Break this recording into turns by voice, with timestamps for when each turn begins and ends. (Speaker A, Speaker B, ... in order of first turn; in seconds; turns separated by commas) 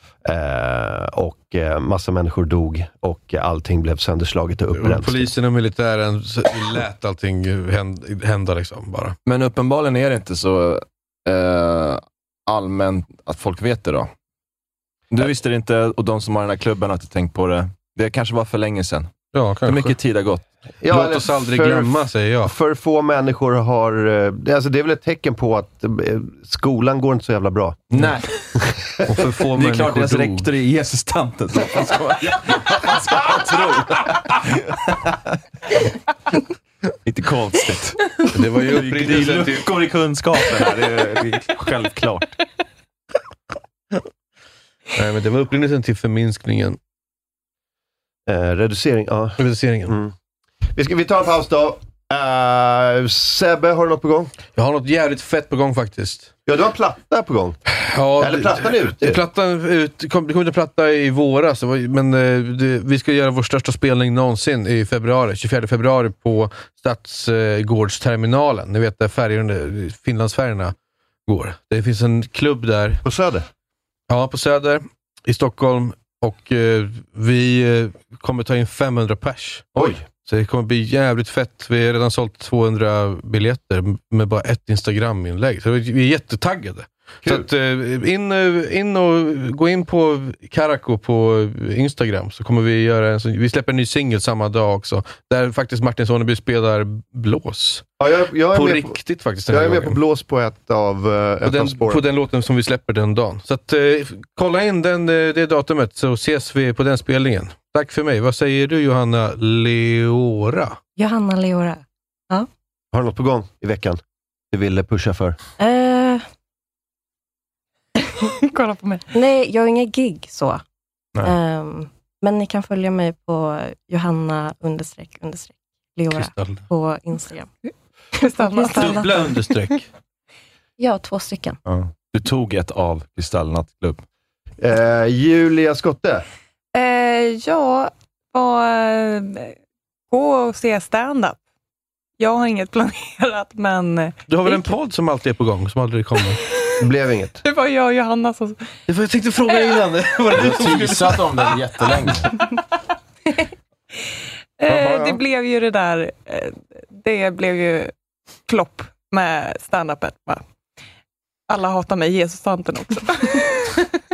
Speaker A: 0.2-5.3, Speaker B: 4.7-9.2, Speaker C: 9.3-14.1, Speaker C: 15.1-19.1, Speaker B: 19.3-20.0, Speaker C: 19.6-20.4, Speaker A: 20.8-27.8, Speaker B: 20.9-22.5, Speaker B: 27.9-28.4, Speaker B: 29.1-30.5, Speaker C: 29.5-35.2, Speaker C: 37.0-38.0, Speaker B: 38.3-39.7, Speaker C: 38.6-42.4, Speaker B: 45.0-46.8, Speaker A: 48.3-50.1, Speaker B: 49.4-50.0, Speaker A: 50.8-54.3, Speaker B: 54.5-56.3, Speaker A: 56.5-57.6, Speaker B: 57.8-70.7, Speaker A: 58.2-59.2, Speaker B: 71.3-73.0, Speaker A: 73.0-73.5, Speaker B: 74.1-97.9, Speaker A: 79.8-80.0, Speaker A: 98.0-99.0, Speaker B: 98.5-100.0, Speaker A: 99.5-102.0, Speaker B: 101.5-110.8, Speaker D: 111.0-112.5, Speaker A: 112.9-114.0, Speaker A: 114.5-115.4, Speaker D: 115.6-116.2, Speaker E: 118.3-119.0, Speaker D: 119.1-120.6, Speaker D: 121.2-127.5, Speaker B: 126.1-126.7, Speaker D: 128.2-129.3, Speaker E: 128.2-129.2, Speaker B: 128.7-129.8, Speaker D: 130.8-131.6, Speaker C: 131.7-134.0, Speaker A: 134.6-136.2, Speaker E: 136.7-139.5, Speaker E: 140.1-141.4, Speaker E: 142.2-144.7, Speaker B: 144.3-146.4, Speaker A: 146.8-147.4, Speaker E: 147.4-148.6, Speaker B: 148.9-151.6, Speaker F: 150.4-152.3, Speaker E: 154.6-157.9, Speaker C: 154.7-155.2, Speaker E: 158.5-160.4, Speaker E: 161.5-163.9